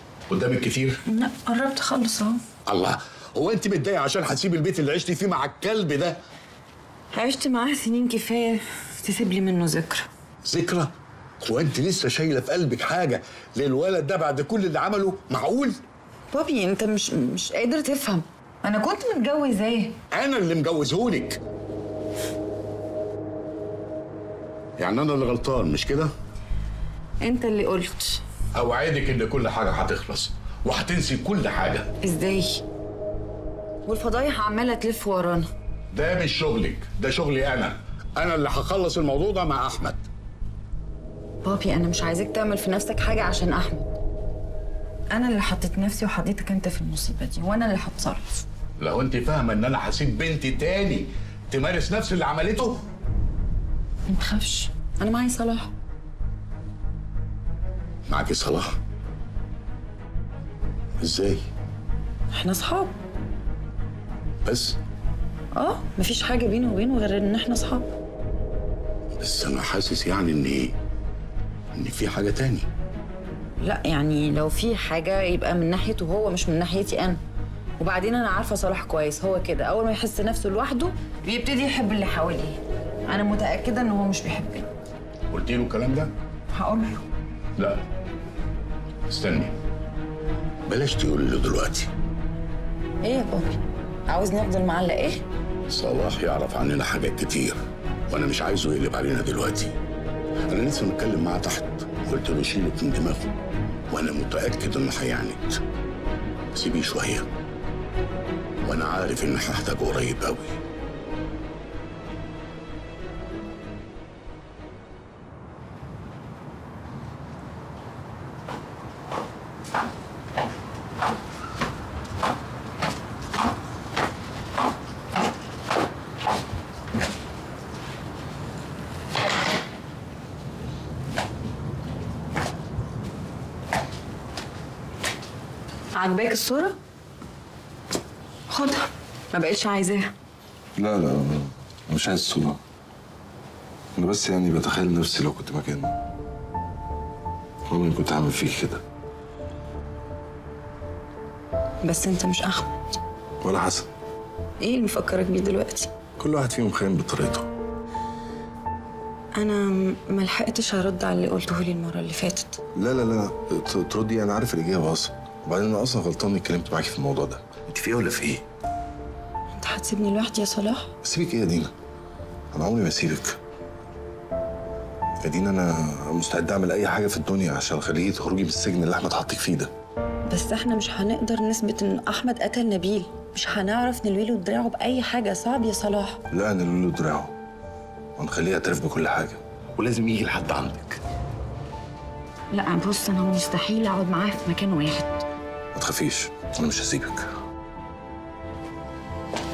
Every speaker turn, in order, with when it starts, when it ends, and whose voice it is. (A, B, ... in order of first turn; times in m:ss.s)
0:00.3-0:01.0 A
0:01.1-0:02.4 B
0:02.7-0:06.2 A
0:07.1-0:10.1 B
0:10.4-0:15.8 A
0:16.3-0:20.0 B
0:20.1-0:21.4 A
0:24.8-0:26.1 A
0:27.2-0:28.2 B
0:28.5-0:31.9 A
0:32.0-0:32.6 B
0:33.9-0:35.5 B
0:35.9-0:40.0 A
0:41.4-0:43.9 B
0:45.1-0:48.4 B
0:48.8-0:52.8 A
0:54.1-0:55.7 B
0:58.1-0:58.8 A
1:01.0-1:01.4 A
1:02.3-1:02.9 B
1:04.4-1:04.8 A
1:05.5-1:07.9 B
1:09.2-1:10.7 A
1:11.7-1:12.7 A
1:13.6-1:17.2 B
1:17.8-1:24.7 B
1:25.3-1:26.1 A
1:26.5-1:27.0 B
1:27.6-1:27.8 A
1:29.1-1:29.5 A
1:30.6-1:31.9 A
1:33.0-1:35.2 B
1:35.7-1:39.7 A
1:40.5-1:43.3 A
1:43.9-1:45.6 A
1:46.5-1:47.2 A
1:48.6-1:50.6 A
2:15.9-2:16.8 B
2:18.5-2:20.1 B
2:20.8-2:22.6 C
2:24.0-2:26.0 C
2:27.7-2:28.8 C
2:31.8-2:32.7 B
2:33.4-2:33.9 C
2:34.6-2:35.9 B
2:36.2-2:37.5 C
2:39.4-2:42.6 B
2:42.7-2:48.4 C
2:49.5-2:50.9 B
2:51.0-2:51.7 C
2:52.5-2:53.4 C
2:55.2-2:59.7 C
3:00.3-3:06.2 B
3:06.3-3:07.3 C
3:08.2-3:09.4 C
3:09.8-3:11.0 A
3:12.5-3:15.2 B
3:15.7-3:17.3 C